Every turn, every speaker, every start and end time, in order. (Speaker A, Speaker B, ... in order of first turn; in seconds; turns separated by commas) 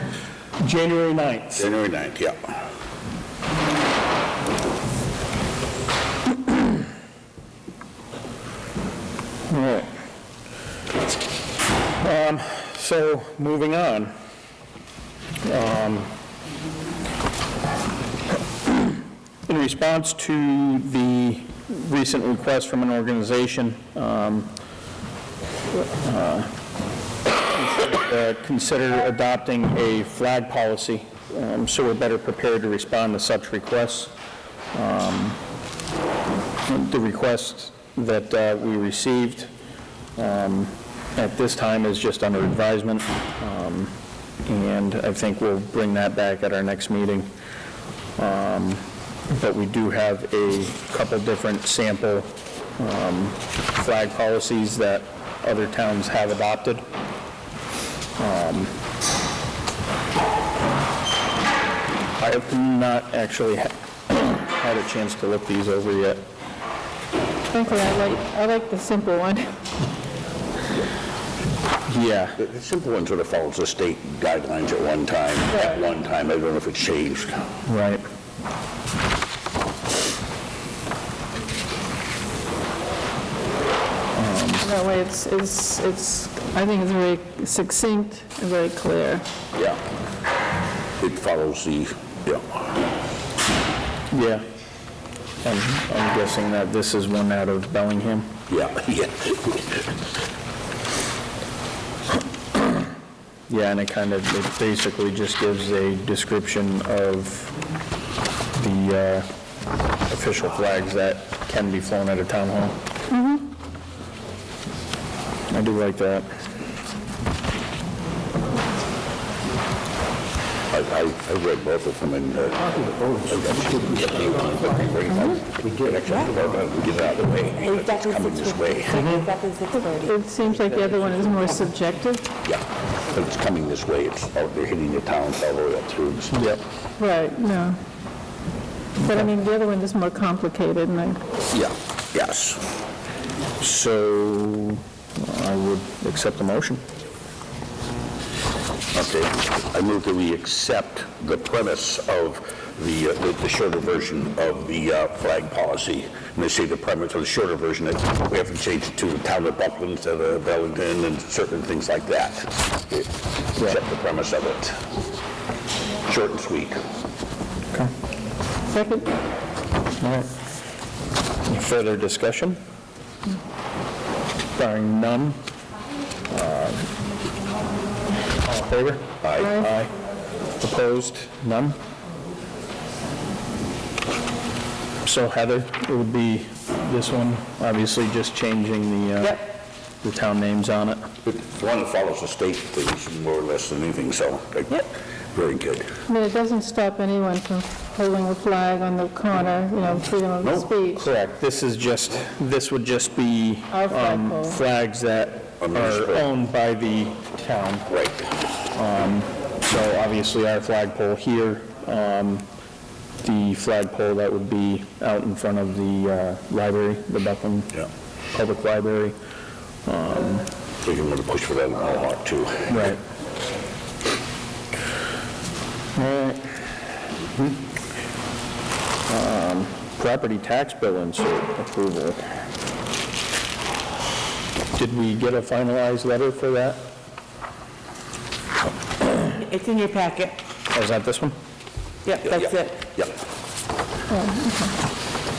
Speaker A: 0.6-1.7, Speaker B: 1.6-2.4, Speaker A: 9.5-9.9, Speaker A: 12.0-14.1, Speaker A: 15.4-16.1, Speaker A: 19.4-24.5, Speaker A: 25.9-26.5, Speaker A: 27.6-34.1, Speaker A: 34.7-35.4, Speaker A: 36.7-39.5, Speaker A: 40.1-43.9, Speaker A: 44.5-47.3, Speaker A: 48.2-56.8, Speaker A: 58.2-58.7, Speaker A: 62.1-66.2, Speaker C: 67.5-69.5, Speaker A: 71.9-72.4, Speaker B: 72.4-77.5, Speaker A: 77.7-78.0, Speaker A: 84.1-84.7, Speaker C: 84.6-89.2, Speaker B: 91.0-92.5, Speaker A: 94.1-94.4, Speaker A: 95.4-98.4, Speaker B: 98.5-99.9, Speaker A: 103.5-107.5, Speaker A: 108.5-109.3, Speaker A: 110.1-112.8, Speaker C: 113.1-113.5, Speaker A: 115.5-116.3, Speaker B: 120.7-129.1, Speaker D: 127.6-130.2, Speaker C: 129.9-132.3, Speaker B: 132.4-136.4, Speaker A: 136.3-136.6, Speaker C: 137.0-137.8, Speaker C: 139.0-141.2, Speaker A: 139.0-139.3, Speaker B: 141.5-142.6, Speaker A: 143.6-146.8, Speaker B: 148.9-164.8, Speaker B: 166.1-166.8, Speaker C: 168.7-169.1, Speaker A: 170.0-170.3, Speaker A: 171.5-172.6, Speaker A: 174.6-175.4, Speaker A: 176.3-176.9, Speaker A: 178.4-179.9, Speaker B: 179.2-179.6, Speaker A: 180.6-181.8, Speaker A: 185.0-189.5, Speaker A: 190.0-191.1, Speaker B: 191.2-195.8, Speaker C: 196.1-201.0, Speaker A: 200.9-207.9, Speaker C: 203.7-204.6, Speaker B: 205.6-206.3, Speaker B: 207.9-208.2, Speaker A: 208.7-212.4, Speaker A: 213.2-217.8, Speaker A: 218.3-219.1, Speaker A: 219.8-220.5, Speaker B: 220.8-222.9, Speaker A: 222.7-223.0, Speaker A: 225.9-226.4, Speaker A: 229.1-232.2, Speaker A: 234.7-236.8, Speaker D: 239.2-240.3, Speaker A: 240.7-241.3, Speaker D: 242.0-242.8, Speaker B: 242.2-243.1, Speaker C: 244.2-244.5